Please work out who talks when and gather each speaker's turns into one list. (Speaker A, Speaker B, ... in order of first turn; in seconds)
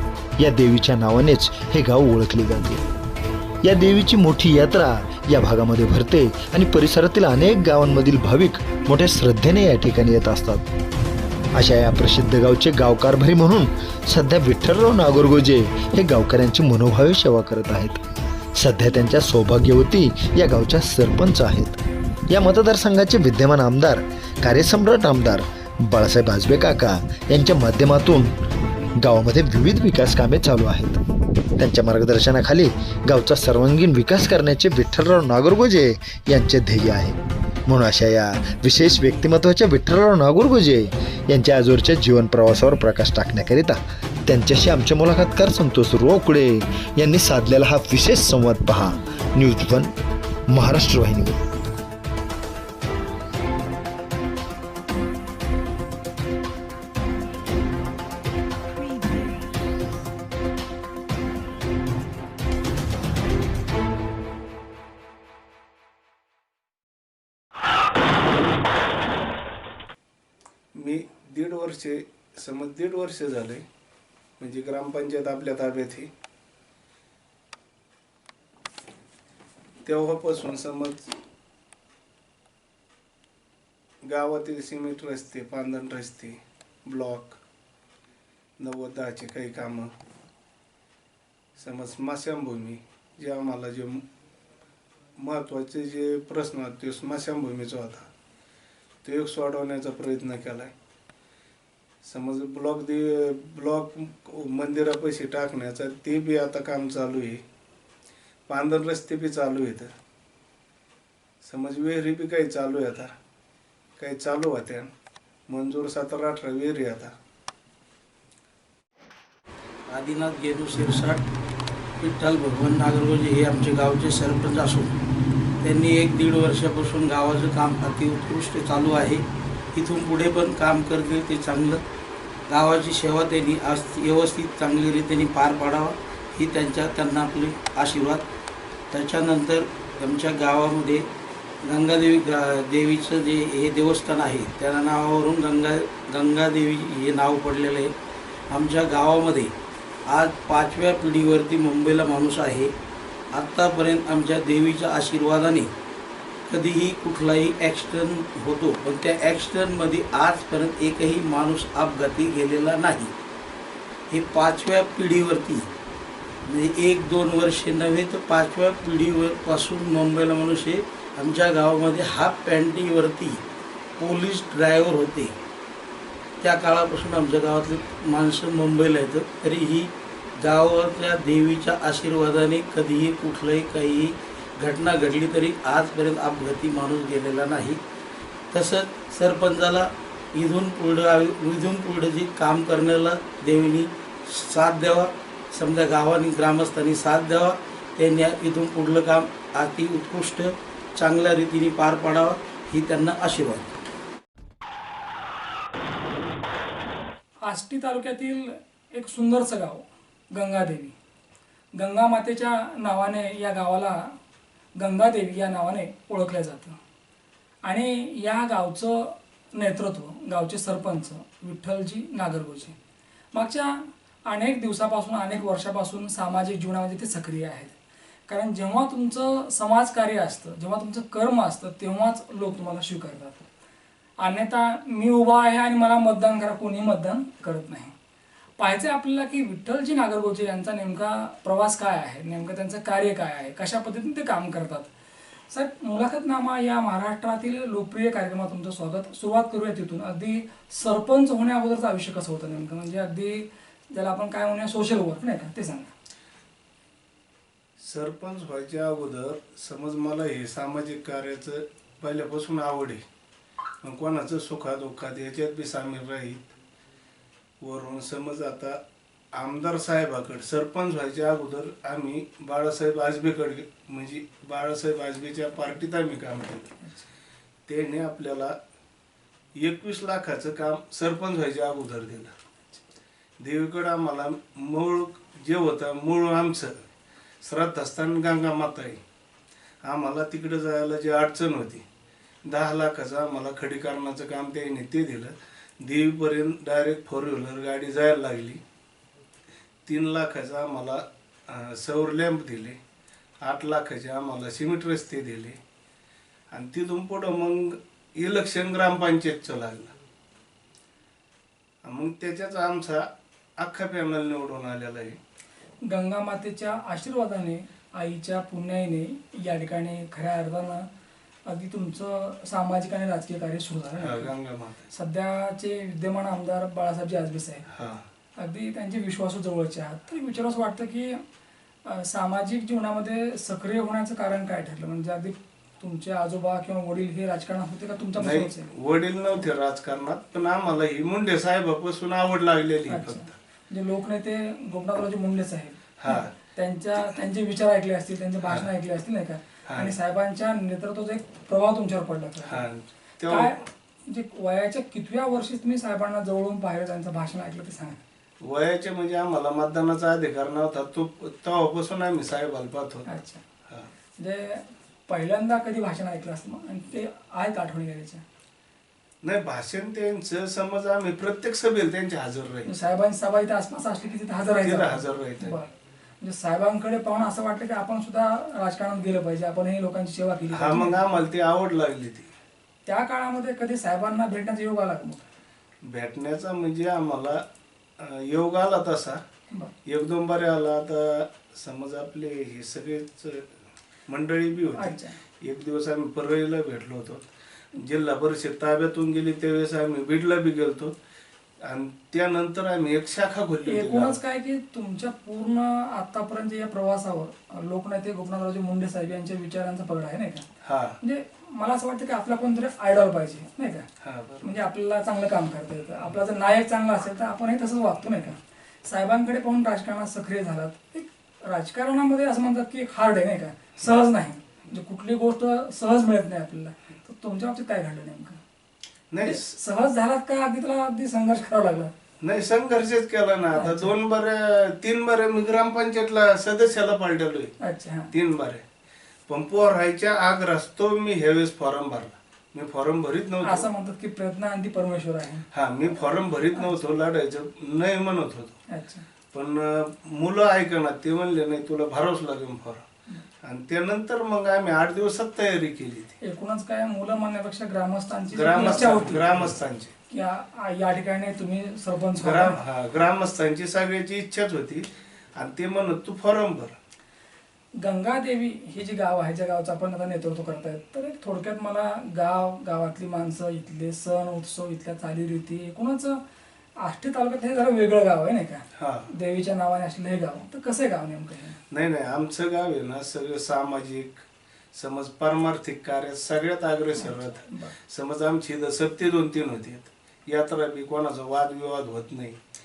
Speaker A: 0.4-2.8, 3.6-10.7, 11.5-18.0, 18.6-28.3, 29.0-31.0, 31.6-49.9, 50.5-51.4
Speaker B: 70.7-73.6, 74.4-76.1, 79.8-81.0, 84.0-87.4, 88.6-89.9, 91.6-94.0, 95.2-98.1, 99.0-100.7, 102.0-107.4, 108.5-109.9, 111.4-113.1, 114.0-114.9, 115.5-117.1, 257.8-263.0, 263.8-266.5, 267.6-268.8, 269.3-276.7, 277.7-278.6, 279.6-282.3, 283.4-286.7, 287.4-289.0, 289.8-291.8, 292.4-298.6, 299.9-302.8, 303.4-305.6, 306.5-309.9, 311.8-315.2, 324.0-324.9, 327.7-328.1, 338.2-343.3, 346.0-346.3, 349.7-349.9, 352.4-353.5, 358.4-363.1, 369.2-372.7, 374.6-375.6, 380.5-382.3, 385.8-387.4, 388.0-389.2, 389.9-393.5, 394.1-401.0, 401.6-404.2, 410.6-411.0, 414.0-414.5, 429.1-429.5, 432.2-437.5, 438.1-438.6, 439.3-443.7, 445.5-448.6, 449.3-452.9, 453.4-456.1, 458.3-459.9, 462.2-466.8, 478.8-479.1, 481.7-484.2, 484.8-492.4
Speaker C: 119.9-121.2, 122.0-125.0, 125.6-131.8, 132.5-138.2, 138.9-141.1, 141.6-147.9, 148.5-149.5, 150.1-152.7, 153.3-155.7, 156.5-163.1, 164.1-165.7, 166.5-173.4, 174.0-175.3, 176.4-187.8, 188.5-203.7
Speaker D: 207.4-210.9, 211.8-214.2, 214.8-216.8, 217.6-222.8, 223.3-227.7, 228.3-233.4, 234.2-237.9, 238.6-244.9, 245.5-255.9, 276.8-277.1, 315.9-320.9, 321.5-324.3, 324.9-327.7, 328.4-331.2, 331.8-338.7, 342.9-352.6, 353.3-358.0, 363.1-363.4, 364.2-368.2, 372.6-381.0, 382.9-385.3, 394.8-395.2, 403.7-410.5, 411.0-413.9, 414.4-428.4, 429.2-431.9, 433.5-433.9, 437.6-438.1, 443.4-445.5, 446.5-446.8, 448.7-449.1, 456.2-459.4, 460.1-462.6, 467.8-476.2, 476.8-481.6, 487.0-487.7